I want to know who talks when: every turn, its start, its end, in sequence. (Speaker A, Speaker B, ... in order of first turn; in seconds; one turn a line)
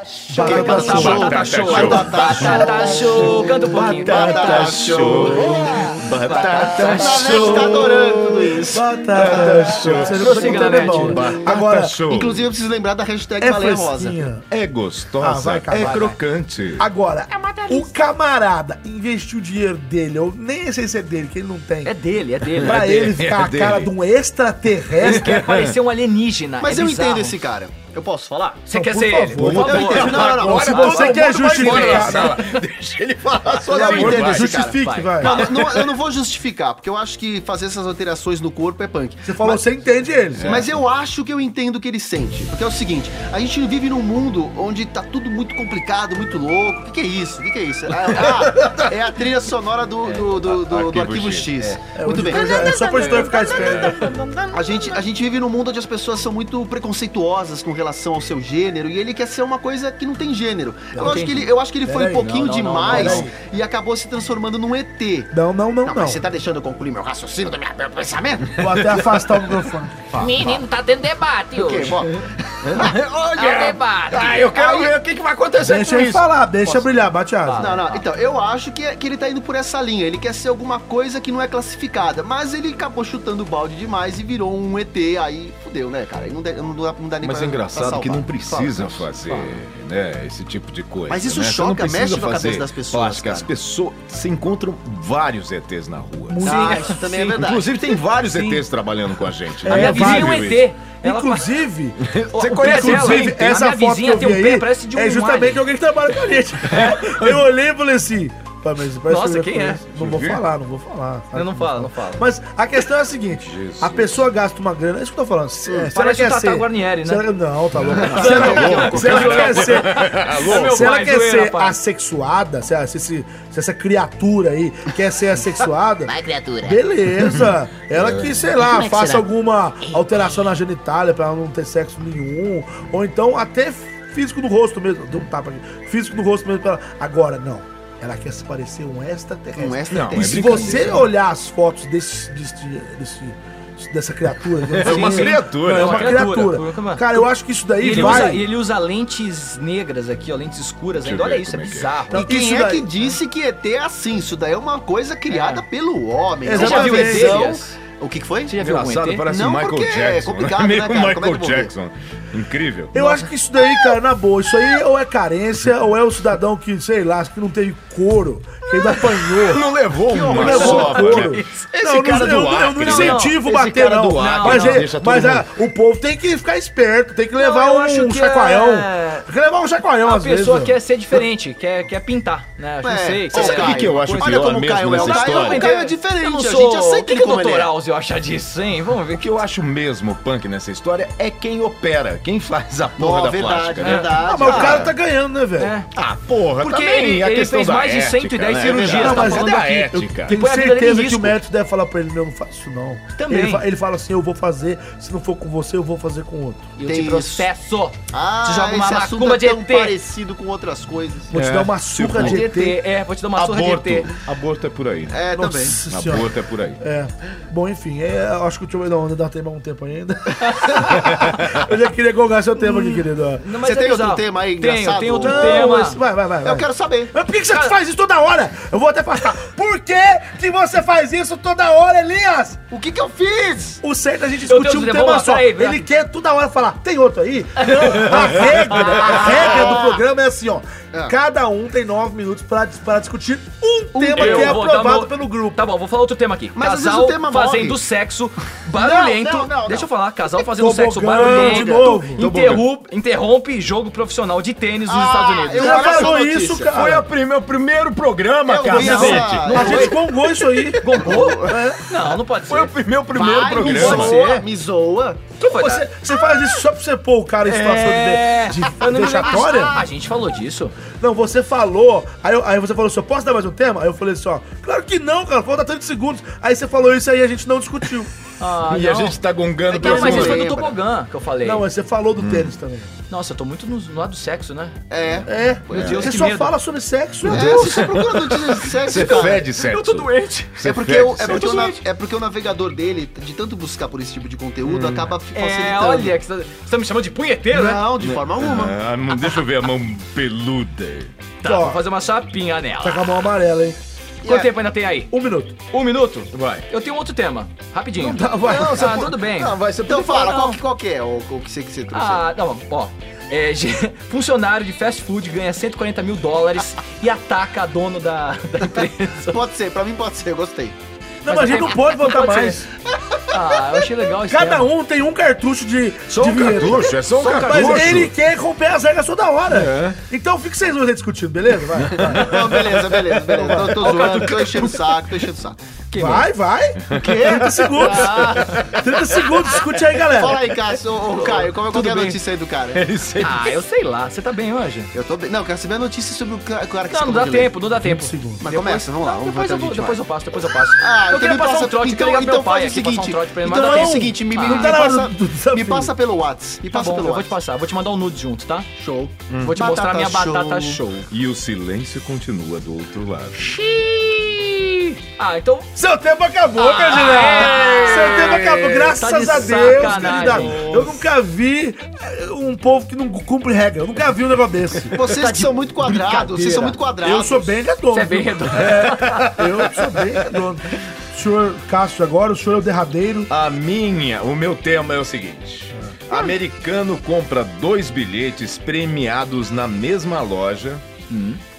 Speaker A: 0.3-2.0
Speaker B: 0.3-9.7
Speaker C: 0.4-4.8
Speaker D: 0.6-2.8
Speaker A: 3.7-5.6
Speaker D: 4.0-12.5
Speaker C: 6.2-7.6
Speaker A: 8.7-11.9
Speaker C: 9.9-11.2
Speaker B: 12.1-14.2
Speaker A: 13.4-14.4
Speaker D: 14.5-16.9
Speaker A: 15.2-16.0
Speaker C: 15.7-16.2
Speaker A: 16.8-21.9
Speaker E: 17.3-17.9
Speaker C: 21.8-23.1
Speaker A: 22.6-25.4
Speaker D: 22.6-23.9
Speaker D: 25.0-25.8
Speaker C: 25.0-27.4
Speaker B: 26.6-28.6
Speaker C: 28.6-30.8
Speaker A: 28.7-32.4
Speaker D: 29.3-34.6
Speaker B: 29.6-31.2
Speaker C: 31.4-32.3
Speaker B: 33.5-39.6
Speaker A: 33.7-35.4
Speaker C: 34.6-35.8
Speaker D: 35.3-35.9
Speaker A: 39.2-40.5
Speaker D: 40.4-40.7
Speaker B: 40.4-52.8
Speaker D: 48.1-48.9
Speaker D: 50.2-51.8
Speaker A: 51.9-54.1
Speaker E: 52.2-55.0
Speaker D: 53.5-54.0
Speaker B: 54.5-65.3
Speaker C: 61.0-63.3
Speaker A: 61.9-62.3
Speaker A: 62.9-63.3
Speaker A: 65.3-66.2
Speaker B: 65.8-68.6
Speaker A: 68.5-70.3
Speaker D: 68.6-69.4
Speaker E: 70.2-72.0
Speaker B: 70.2-70.6
Speaker B: 71.5-72.2
Speaker D: 72.6-76.3
Speaker B: 72.8-73.6
Speaker E: 73.3-74.5
Speaker B: 74.4-74.9
Speaker A: 75.6-77.8
Speaker C: 77.4-78.0
Speaker B: 77.6-89.1
Speaker D: 87.2-100.7
Speaker B: 91.1-93.5
Speaker A: 96.3-96.9
Speaker B: 96.4-98.0
Speaker C: 98.3-98.6
Speaker C: 99.6-101.6
Speaker A: 99.6-148.4
Speaker D: 102.0-103.6
Speaker C: 102.3-105.6
Speaker D: 106.7-107.4
Speaker C: 109.1-109.8
Speaker D: 109.9-110.4
Speaker C: 111.3-112.2
Speaker D: 113.5-114.2
Speaker C: 115.9-117.3
Speaker D: 117.8-120.9
Speaker C: 117.8-121.8
Speaker B: 118.1-119.2
Speaker E: 126.0-126.8
Speaker D: 127.2-128.5
Speaker E: 128.6-129.3
Speaker B: 139.5-140.9
Speaker D: 139.9-141.1
Speaker D: 144.6-146.3
Speaker C: 144.8-152.3
Speaker D: 147.9-148.3
Speaker D: 151.0-152.0
Speaker B: 152.1-158.5
Speaker A: 152.1-152.9
Speaker C: 155.3-155.6
Speaker A: 156.4-157.4
Speaker C: 156.5-157.7
Speaker C: 158.4-159.2
Speaker D: 158.6-162.9
Speaker B: 159.3-161.7
Speaker A: 162.9-169.6
Speaker C: 162.9-163.2
Speaker D: 169.3-175.5
Speaker B: 170.1-171.1
Speaker A: 170.3-180.8
Speaker C: 170.3-173.5
Speaker C: 174.1-174.9
Speaker C: 177.3-179.3
Speaker C: 180.0-189.3
Speaker B: 182.8-187.7
Speaker D: 183.3-185.7
Speaker D: 189.1-194.9
Speaker B: 193.0-194.9
Speaker C: 193.8-194.9
Speaker A: 194.2-195.7
Speaker C: 195.6-195.9
Speaker D: 195.9-200.4
Speaker C: 196.6-201.4
Speaker B: 198.6-199.5
Speaker A: 198.9-206.7
Speaker C: 203.1-203.6
Speaker C: 206.8-210.0
Speaker B: 206.8-207.5
Speaker B: 208.1-211.3
Speaker A: 211.3-212.8
Speaker D: 211.3-212.4
Speaker C: 212.1-214.1
Speaker D: 213.3-215.2
Speaker B: 215.1-215.8
Speaker A: 215.3-223.4
Speaker D: 215.9-216.8
Speaker C: 220.5-220.9
Speaker D: 220.9-221.6
Speaker C: 222.6-226.0
Speaker B: 223.6-225.7
Speaker A: 225.2-232.6
Speaker B: 226.4-227.1
Speaker C: 227.5-227.7
Speaker B: 232.7-233.8
Speaker A: 233.8-245.6
Speaker C: 234.5-235.8
Speaker C: 237.6-239.3
Speaker D: 238.2-238.5
Speaker B: 238.9-240.0
Speaker B: 243.9-244.6
Speaker C: 244.1-256.2
Speaker B: 246.6-247.8
Speaker B: 248.7-249.9
Speaker A: 250.6-252.6
Speaker B: 251.1-252.0
Speaker D: 252.2-252.6
Speaker B: 254.8-256.7
Speaker A: 255.6-257.1
Speaker D: 256.7-259.7
Speaker B: 258.4-261.6
Speaker C: 258.7-260.1
Speaker A: 258.8-261.8
Speaker C: 260.6-262.8
Speaker D: 262.5-264.2
Speaker B: 263.1-265.2
Speaker C: 263.5-264.4
Speaker C: 265.4-265.9
Speaker A: 265.4-269.8
Speaker C: 267.4-270.8
Speaker A: 270.9-278.1
Speaker C: 278.4-281.6
Speaker D: 278.6-280.5
Speaker B: 279.7-280.8
Speaker A: 281.4-282.9
Speaker D: 282.2-282.5
Speaker C: 283.1-286.5
Speaker B: 284.9-286.1
Speaker A: 285.2-287.7
Speaker D: 285.7-286.1
Speaker D: 287.2-291.6
Speaker B: 287.2-289.4
Speaker C: 287.3-288.2
Speaker C: 288.8-290.7
Speaker B: 290.6-296.1
Speaker C: 291.2-291.8
Speaker D: 294.6-295.1
Speaker C: 295.3-297.9
Speaker B: 297.5-298.8
Speaker D: 298.0-301.1
Speaker C: 301.4-303.2
Speaker A: 301.4-301.8
Speaker A: 302.8-303.8
Speaker B: 304.2-304.5
Speaker C: 304.2-305.1
Speaker A: 305.1-305.5
Speaker C: 305.7-310.6
Speaker D: 306.3-306.7
Speaker A: 308.0-308.9
Speaker D: 308.4-310.2
Speaker B: 309.8-312.3
Speaker C: 311.9-319.4
Speaker B: 319.2-320.8
Speaker A: 321.2-322.6
Speaker C: 321.3-322.6
Speaker C: 323.3-324.7
Speaker A: 324.3-332.4
Speaker D: 326.1-328.1
Speaker C: 326.2-328.1
Speaker D: 329.5-330.0
Speaker D: 331.7-334.6
Speaker B: 332.0-335.6
Speaker C: 333.6-334.7
Speaker C: 335.9-336.2
Speaker A: 335.9-340.5
Speaker D: 336.9-339.4
Speaker B: 336.9-338.8
Speaker C: 338.1-338.6
Speaker B: 340.0-342.8
Speaker C: 341.0-342.2
Speaker D: 342.7-343.6
Speaker C: 343.2-344.9
Speaker B: 344.9-347.5
Speaker C: 346.9-354.8
Speaker A: 347.8-348.4
Speaker B: 348.4-350.0
Speaker B: 350.8-357.3
Speaker A: 353.5-355.9
Speaker C: 356.7-358.7
Speaker B: 358.8-360.8
Speaker D: 359.3-359.6
Speaker C: 359.4-361.1
Speaker D: 361.1-363.5
Speaker C: 363.4-365.7
Speaker A: 365.7-374.9
Speaker C: 366.6-370.9
Speaker D: 367.4-369.0
Speaker D: 369.7-371.0
Speaker B: 374.9-377.5
Speaker C: 375.0-376.8
Speaker A: 377.0-383.3
Speaker C: 377.9-379.4
Speaker D: 379.0-379.5
Speaker D: 383.3-390.8
Speaker C: 391.1-391.4